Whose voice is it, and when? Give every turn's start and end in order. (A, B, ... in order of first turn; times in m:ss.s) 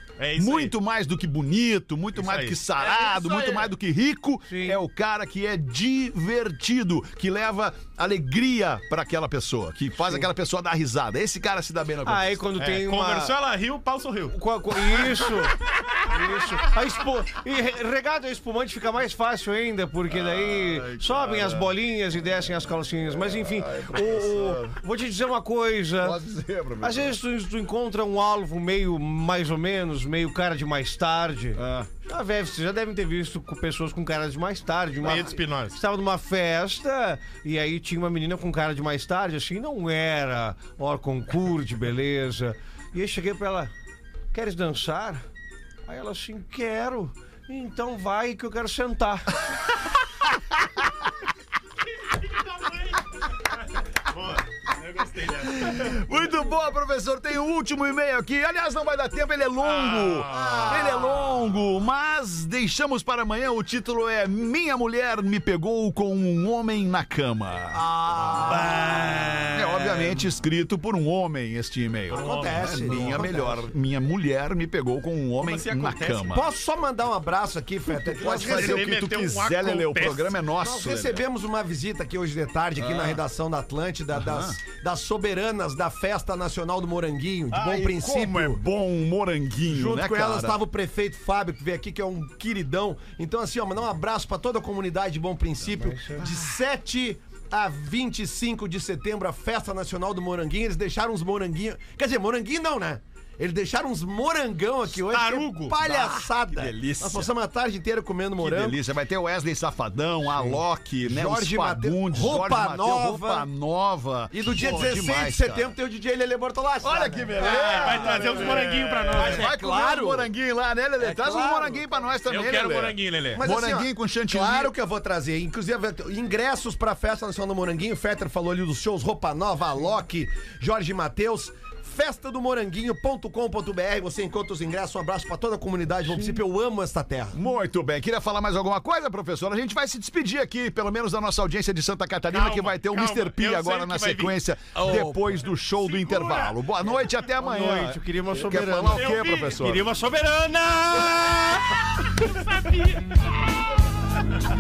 0:00.2-0:00.7 A
0:00.4-0:12.4 B
0:02.2-0:02.6 A
0:02.8-0:03.7 C
0:04.5-0:04.8 D
0:12.0-0:13.3 D
0:12.6-0:14.4 A
0:14.3-0:26.2 D
0:20.1-0:21.7 B
0:23.0-0:24.8 B
0:26.0-0:27.2 B
0:26.8-0:43.7 D
0:31.6-0:31.9 B
0:35.0-0:35.8 A
0:44.3-0:45.2 D
0:45.9-0:49.3 D
0:52.1-0:56.0 A
0:55.4-1:07.8 B
0:59.6-1:01.0 A
1:00.3-1:01.3 C
1:07.7-1:09.3 C
1:08.5-1:10.1 D
1:09.5-1:16.5 B
1:12.1-1:13.2 A
1:12.1-1:13.8 C
1:15.4-1:16.3 A
1:16.3-1:18.9 C
1:18.1-1:20.4 A
1:18.2-1:21.2 B
1:20.6-1:28.6 C
1:24.1-1:24.6 B
1:27.5-1:30.6 B
1:29.7-1:48.8 C
1:35.8-1:36.2 D
1:36.2-1:36.5 B
1:44.9-1:45.8 A
1:45.8-1:47.3 B
1:48.4-1:55.7 B
1:51.0-1:53.5 C
1:54.3-2:00.3 C
1:56.8-2:04.7 B
1:57.4-1:59.5 A
2:01.0-2:01.9 C
2:02.3-2:03.4 A
2:03.4-2:17.4 C
2:16.1-2:16.4 D
2:17.3-2:29.9 B
2:22.3-2:24.4 A
2:24.8-2:25.3 D
2:25.8-2:26.5 A
2:27.4-2:31.8 D
2:28.9-2:29.6 A
2:32.1-2:33.1 A